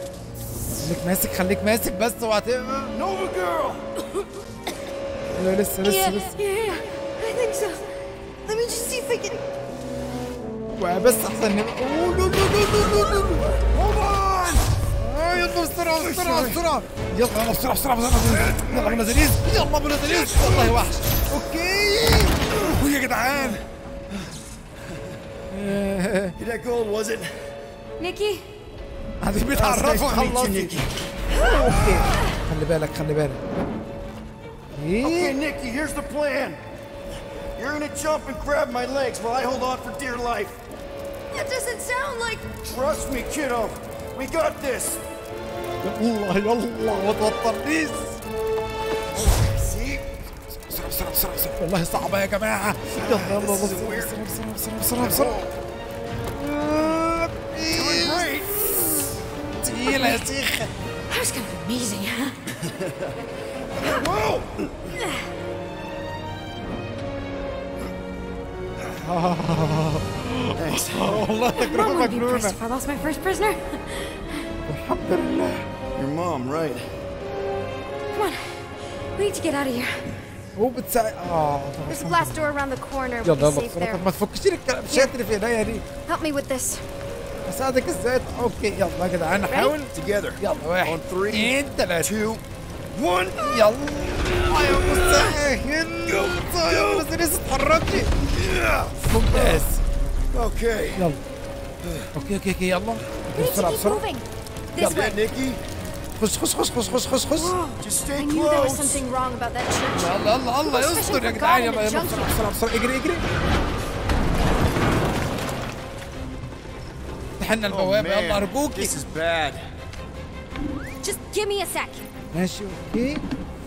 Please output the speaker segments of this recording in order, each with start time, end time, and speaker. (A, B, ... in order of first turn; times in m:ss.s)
0:00.8-0:02.9 A
0:02.9-0:03.8 B
0:05.4-0:06.4 A
0:05.8-0:07.8 C
0:08.4-0:09.4 C
0:10.8-0:13.5 A
0:13.7-0:14.6 B
0:15.0-0:23.6 A
0:15.9-0:16.7 B
0:18.2-0:19.2 B
0:20.1-0:20.8 B
0:23.3-0:24.3 B
0:24.9-0:25.2 B
0:25.5-0:26.4 A
0:26.4-0:27.3 B
0:28.0-0:28.4 C
0:29.2-0:30.8 A
0:29.5-0:30.9 B
0:31.3-0:32.4 C
0:31.4-0:33.4 A
0:34.7-0:35.4 A
0:35.0-0:36.6 B
0:37.6-0:40.6 B
0:41.3-0:42.6 C
0:42.6-0:45.0 B
0:45.8-0:48.2 A
0:49.1-0:50.1 B
0:50.5-0:55.3 A
0:52.9-0:54.2 B
0:55.0-0:55.6 B
0:56.4-0:58.2 A
0:57.7-0:58.8 B
0:59.6-1:00.7 A
0:59.8-1:00.2 C
1:01.1-1:02.4 C
1:02.5-1:03.2 B
1:03.8-1:05.0 B
1:05.0-1:05.3 C
1:09.0-1:12.6 A
1:10.6-1:11.3 B
1:11.5-1:14.5 C
1:14.7-1:15.7 A
1:15.9-1:16.9 B
1:18.1-1:20.1 C
1:20.6-1:22.4 A
1:21.9-1:24.0 C
1:23.2-1:25.8 A
1:26.1-1:26.8 C
1:27.4-1:32.1 A
1:29.5-1:29.7 C
1:29.9-1:35.4 B
1:33.4-1:38.1 A
1:36.1-1:37.1 B
1:38.3-1:39.7 B
1:39.0-1:39.8 A
1:40.3-1:41.1 B
1:41.0-1:41.2 A
1:41.8-1:42.1 B
1:42.1-1:44.0 A
1:43.3-1:45.2 C
1:44.8-1:45.6 B
1:46.2-1:47.6 A
1:47.3-1:52.4 C
1:47.8-1:49.0 B
1:49.9-1:53.2 A
1:57.4-1:59.0 A
1:57.7-1:59.7 B
2:01.0-2:02.1 C
2:02.3-2:03.2 A